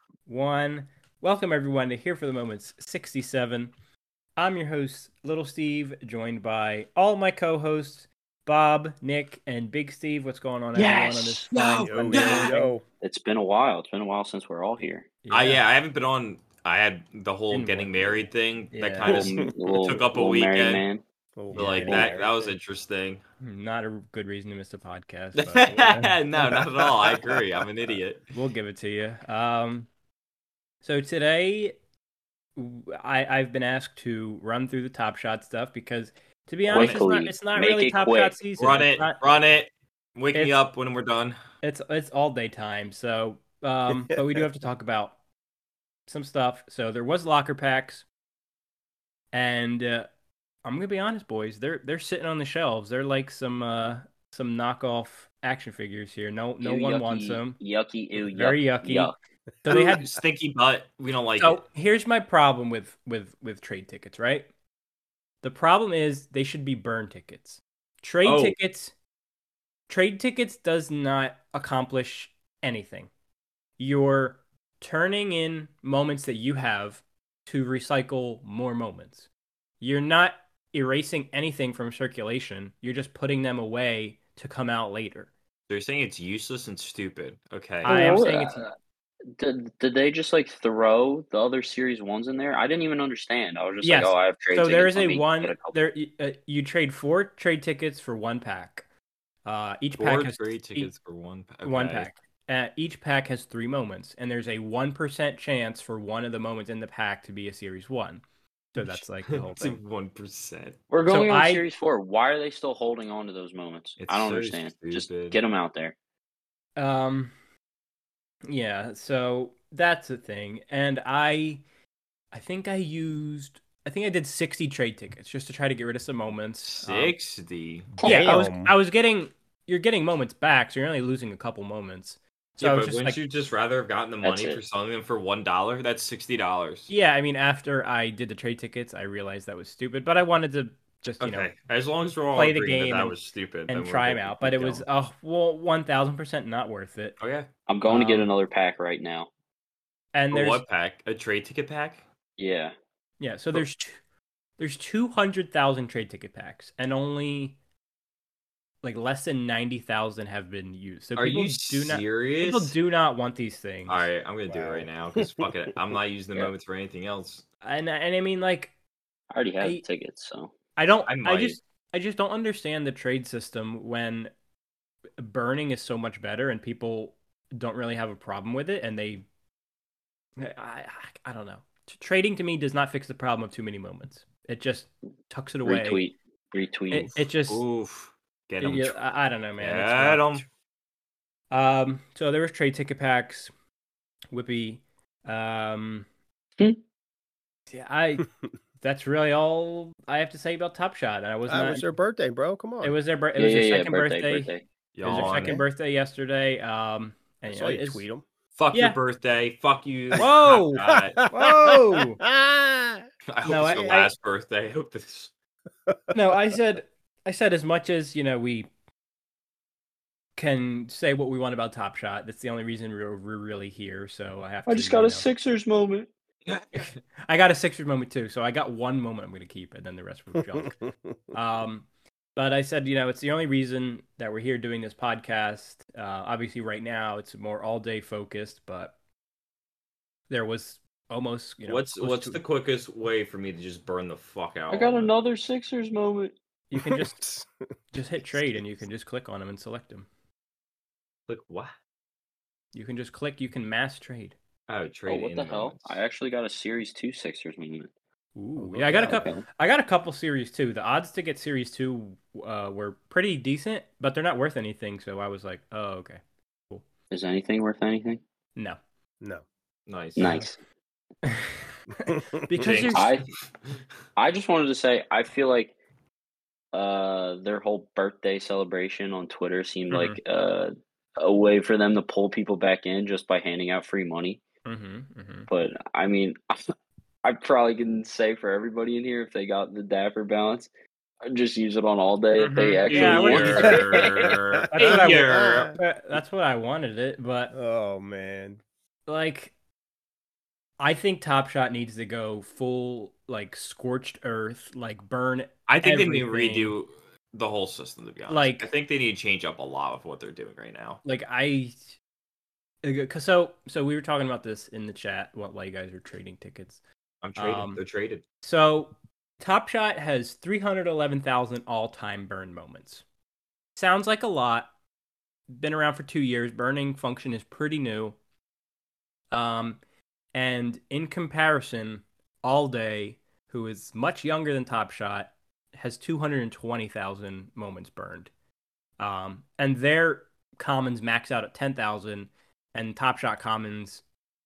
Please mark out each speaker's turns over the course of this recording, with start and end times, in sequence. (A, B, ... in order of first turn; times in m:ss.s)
0:00.2-0:03.7 A
0:04.4-0:12.7 A
0:10.8-0:15.1 B
0:11.5-0:12.5 C
0:11.9-0:12.8 D
0:15.2-0:15.6 A
0:15.3-0:20.8 C
0:17.5-0:19.3 A
0:19.1-0:21.0 B
0:21.4-0:22.3 D
0:21.5-0:21.8 A
0:21.5-0:23.2 C
0:21.8-0:22.2 B
0:23.4-0:26.2 A
0:25.3-0:28.2 C
0:28.3-0:29.9 A
0:30.8-0:31.7 A
0:32.6-0:39.2 A
0:36.7-0:38.4 B
0:36.7-0:37.0 C
0:38.6-0:41.4 C
0:41.6-0:45.1 A
0:46.1-0:48.0 A
0:49.3-0:50.1 A
0:50.6-0:57.6 A
0:56.6-0:59.1 B
0:58.3-0:59.1 A
0:59.6-1:00.0 D
0:59.6-1:00.0 A
0:59.7-1:01.6 C
1:01.4-1:04.5 A
1:05.4-1:08.9 A
1:08.2-1:08.6 C
1:09.9-1:13.1 A
1:13.8-1:19.3 A
1:19.8-1:25.3 A
1:25.7-1:28.3 C
1:27.8-1:28.6 A
1:27.8-1:28.7 B
1:29.4-1:35.8 B
1:33.8-1:38.8 A
1:39.4-1:40.9 A
1:40.0-1:42.1 C
1:41.6-1:48.2 A
1:48.7-1:49.8 A
1:48.8-1:50.8 C
1:50.9-1:55.9 B
1:51.0-1:51.6 A
1:54.0-1:55.4 C
1:56.8-1:57.3 A
1:58.5-2:01.6 A
2:02.3-2:07.2 A
2:06.7-2:07.9 C
2:08.0-2:08.3 B
2:08.0-2:13.2 A
2:08.0-2:08.7 D
2:12.6-2:16.9 C
2:14.2-2:14.6 B
2:16.9-2:21.5 A
2:21.2-2:24.8 C
2:22.3-2:23.2 A
2:23.7-2:27.2 A
2:27.2-2:27.5 C
2:27.7-2:29.3 B
2:27.9-2:28.3 A
2:30.1-2:30.6 A
2:30.3-2:32.0 C
2:32.4-2:32.7 B
2:33.2-2:34.0 A
2:34.6-2:37.6 A
2:38.8-2:44.1 A
2:41.2-2:42.8 C
2:43.9-2:47.4 C
2:44.5-2:45.5 D
2:47.6-2:48.7 A
2:49.3-2:50.5 B
2:50.8-2:54.3 A
2:51.1-2:51.6 C
2:55.2-2:59.2 A
3:00.4-3:06.0 A
3:05.6-3:07.2 B
3:06.9-3:07.6 A
3:07.5-3:09.0 C
3:08.6-3:10.4 A
3:09.6-3:10.4 C
3:11.5-3:13.5 A
3:14.3-3:16.0 A
3:17.7-3:18.3 A
3:18.8-3:21.9 A
3:21.5-3:23.0 D
3:22.8-3:24.5 A
3:23.4-3:24.6 B
3:24.9-3:25.6 C
3:25.0-3:28.0 A
3:25.2-3:25.6 D
3:27.5-3:28.2 D
3:28.5-3:31.2 C
3:28.7-3:29.0 A
3:30.2-3:32.2 A
3:31.2-3:33.0 D
3:33.3-3:35.3 C
3:33.4-3:34.1 A
3:35.9-3:36.2 D
3:36.1-3:38.7 A
3:40.4-3:45.3 A
3:44.7-3:46.1 B
3:46.5-3:46.9 C
3:47.3-3:50.8 A
3:50.3-3:51.3 D
3:51.3-3:58.9 A
4:00.3-4:02.4 A
4:01.6-4:05.1 C
4:04.7-4:06.3 B
4:06.7-4:07.2 A
4:06.7-4:07.5 D
4:07.9-4:10.1 A
4:11.3-4:11.7 C
4:12.7-4:14.3 A
4:14.7-4:16.0 C
4:15.1-4:17.9 B
4:18.4-4:26.8 A
4:18.6-4:19.3 D
4:19.0-4:19.4 B
4:27.1-4:28.2 B
4:29.9-4:30.4 C
4:30.2-4:30.6 B
4:31.2-4:33.1 A
4:32.1-4:32.9 D
4:32.6-4:33.0 C
4:32.9-4:33.2 B
4:34.2-4:35.7 B
4:36.7-4:44.4 B
4:39.9-4:40.2 A
4:44.6-4:45.5 A
4:45.5-4:46.4 B
4:47.2-4:50.7 B
4:51.2-4:54.3 B
4:52.4-4:54.0 A
4:52.8-4:55.8 C
4:53.6-4:55.8 D
4:54.7-4:57.5 A
4:57.5-4:58.6 D
4:59.1-4:59.5 A
5:00.8-5:06.8 A
5:05.7-5:11.0 C
5:08.3-5:08.7 A
5:11.0-5:11.8 A
5:12.8-5:16.8 A
5:17.2-5:18.2 C
5:17.4-5:17.8 A
5:18.4-5:23.0 A
5:23.8-5:24.7 A
5:25.5-5:28.2 A
5:29.3-5:29.8 A
5:30.3-5:38.3 A
5:39.0-5:44.0 A